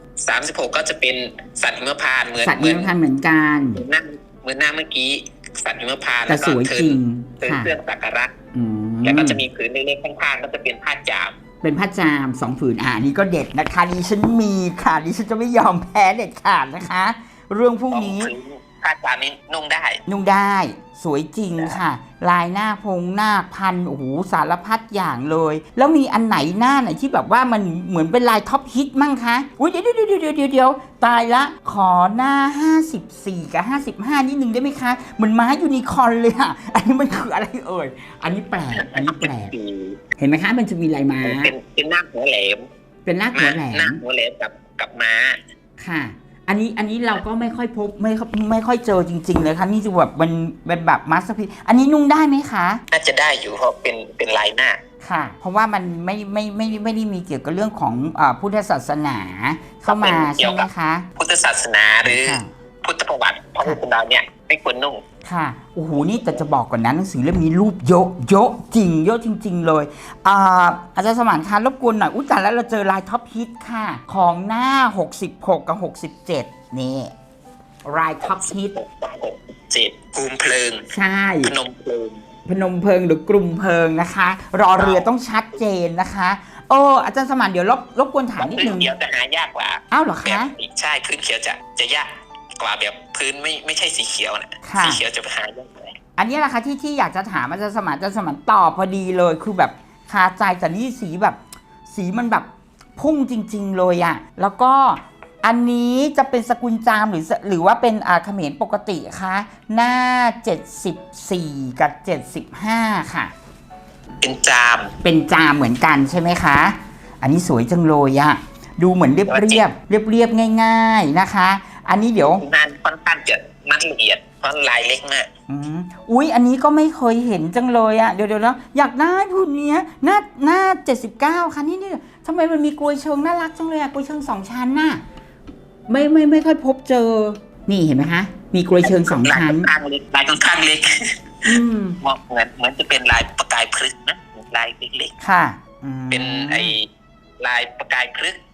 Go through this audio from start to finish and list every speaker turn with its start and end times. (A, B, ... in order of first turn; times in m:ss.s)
0:00.2-0:02.9 A
0:02.4-0:03.8 B
0:03.8-0:08.3 A
0:06.3-0:07.7 B
0:08.5-0:09.4 B
0:09.0-0:11.3 A
0:11.6-0:18.3 B
0:17.9-0:20.0 A
0:20.1-0:39.5 B
0:38.7-0:40.0 A
0:40.2-0:41.5 B
0:41.2-0:42.7 A
0:43.0-0:44.0 B
0:43.3-0:45.4 A
0:45.8-0:52.8 B
0:52.9-0:54.8 A
0:55.0-1:01.0 B
0:59.9-1:05.0 A
1:02.0-1:02.5 B
1:05.2-1:17.1 B
1:06.0-1:06.4 A
1:17.8-1:18.7 B
1:18.2-1:20.8 A
1:20.9-1:21.5 B
1:21.4-1:22.2 A
1:22.4-1:28.9 B
1:24.8-1:25.1 A
1:28.4-1:35.9 A
1:29.9-1:30.5 B
1:34.6-1:35.0 B
1:36.2-1:53.3 B
1:54.2-1:54.9 A
1:55.0-2:02.4 B
1:59.3-1:59.6 A
2:02.4-2:05.3 A
2:05.5-2:15.0 B
2:15.9-2:19.7 B
2:18.8-2:25.1 A
2:21.4-2:22.0 B
2:25.2-2:26.7 B
2:26.1-2:26.9 A
2:27.4-2:28.4 A